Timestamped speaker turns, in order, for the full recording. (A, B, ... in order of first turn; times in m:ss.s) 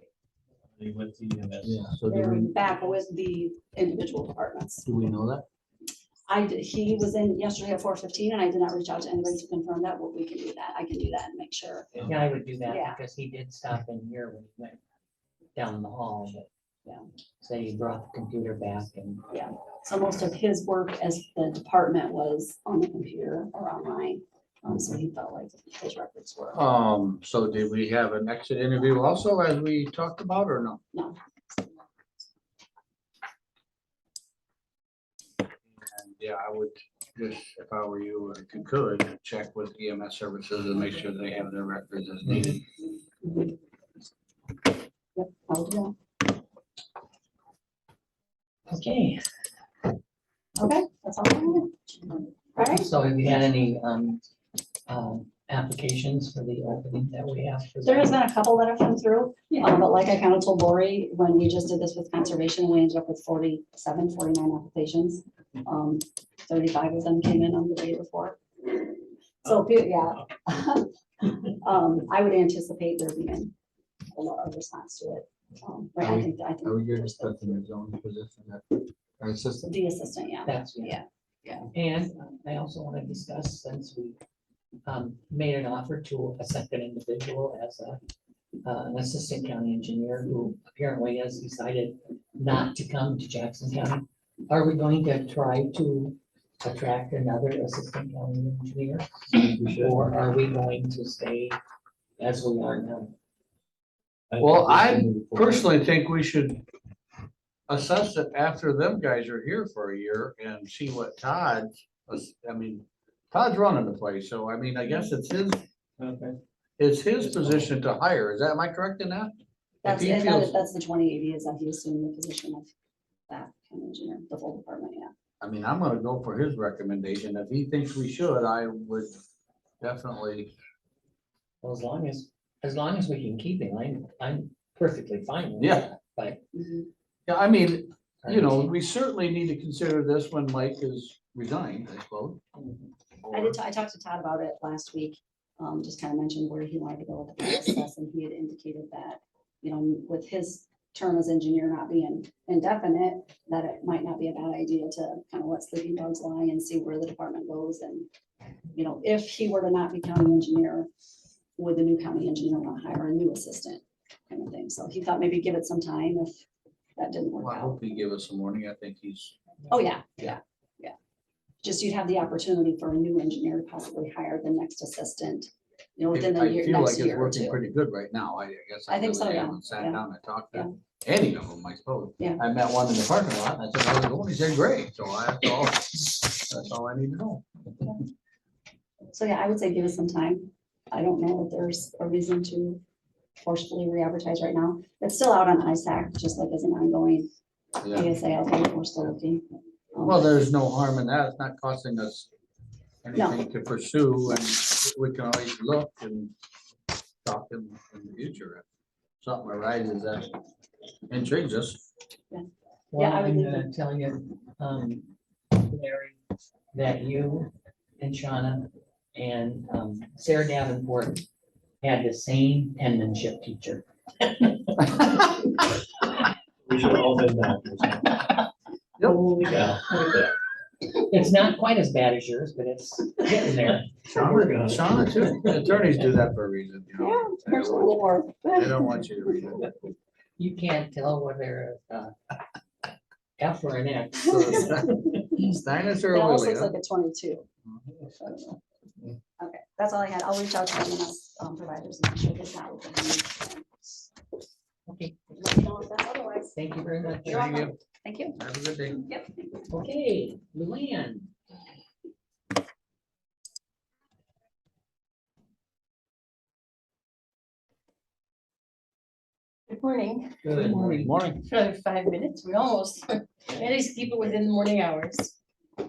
0:00.7-0:01.8 A
0:01.6-0:02.5 B
0:02.0-0:04.8 C
0:04.8-0:05.4 B
0:06.3-0:11.9 C
0:12.0-0:14.8 D
0:12.6-0:13.0 C
0:15.5-0:16.5 D
0:17.4-0:19.2 D
0:19.3-0:26.6 C
0:26.5-0:30.8 B
0:35.7-0:42.6 B
0:43.2-0:43.5 C
0:45.1-0:46.0 C
0:48.7-0:49.2 D
0:50.6-0:52.8 C
0:52.6-0:54.2 D
0:54.9-0:58.2 D
0:57.8-1:08.9 C
1:09.4-1:13.5 C
1:14.1-1:17.6 C
1:16.0-1:19.6 B
1:19.6-1:21.7 C
1:20.4-1:21.0 D
1:21.7-1:24.2 D
1:24.8-1:28.0 D
1:28.6-1:41.5 D
1:39.3-1:39.9 A
1:42.2-1:43.1 D
1:44.3-1:45.6 A
1:44.4-1:46.6 B
1:47.7-1:55.6 B
1:56.0-1:56.4 A
1:56.8-1:59.3 B
1:57.2-1:57.6 A
1:59.8-2:00.5 B
1:59.8-2:02.7 C
2:03.3-2:05.1 C
2:05.4-2:09.2 B
2:09.8-2:10.5 B
2:11.6-2:16.4 D
2:15.6-2:15.8 B
2:16.5-2:16.9 C
2:17.3-2:22.4 B
2:18.2-2:18.7 D
2:22.6-2:22.9 D
2:23.2-2:23.6 B
2:23.3-2:38.1 C
2:38.8-2:40.9 C
2:41.6-2:46.3 C
2:47.0-2:47.8 C
2:47.4-2:49.3 B
2:49.7-2:50.9 C
2:51.6-2:57.6 C
2:56.1-3:07.4 B
2:58.9-3:00.7 C
3:09.1-3:12.8 C
3:13.4-3:17.3 C
3:17.8-3:18.1 B
3:17.9-3:19.4 C
3:19.9-3:20.3 C
3:20.0-3:22.3 B
3:23.0-3:26.3 B
3:27.2-3:28.6 B
3:29.2-3:30.3 B
3:31.1-3:31.8 B
3:32.3-3:33.7 C
3:32.9-3:36.2 D
3:36.7-3:41.2 D
3:41.8-3:45.2 D
3:46.6-3:48.4 A
3:49.1-3:50.1 D
3:50.9-3:54.2 D
3:54.1-3:58.0 B
3:54.2-3:55.5 A
3:57.0-3:59.6 C
3:58.5-3:59.7 B
4:00.4-4:02.1 D
4:03.4-4:04.9 D
4:04.2-4:06.7 B
4:06.1-4:07.5 C
4:08.2-4:08.6 C
4:09.4-4:14.1 C
4:14.9-4:15.2 D
4:15.3-4:16.6 C
4:16.5-4:17.5 D
4:17.2-4:18.4 C
4:17.3-4:17.7 B
4:18.4-4:19.1 B
4:19.0-4:19.6 C
4:19.7-4:21.3 D
4:29.7-4:30.6 E
4:30.4-4:31.1 D
4:30.6-4:31.4 B
4:31.4-4:35.3 E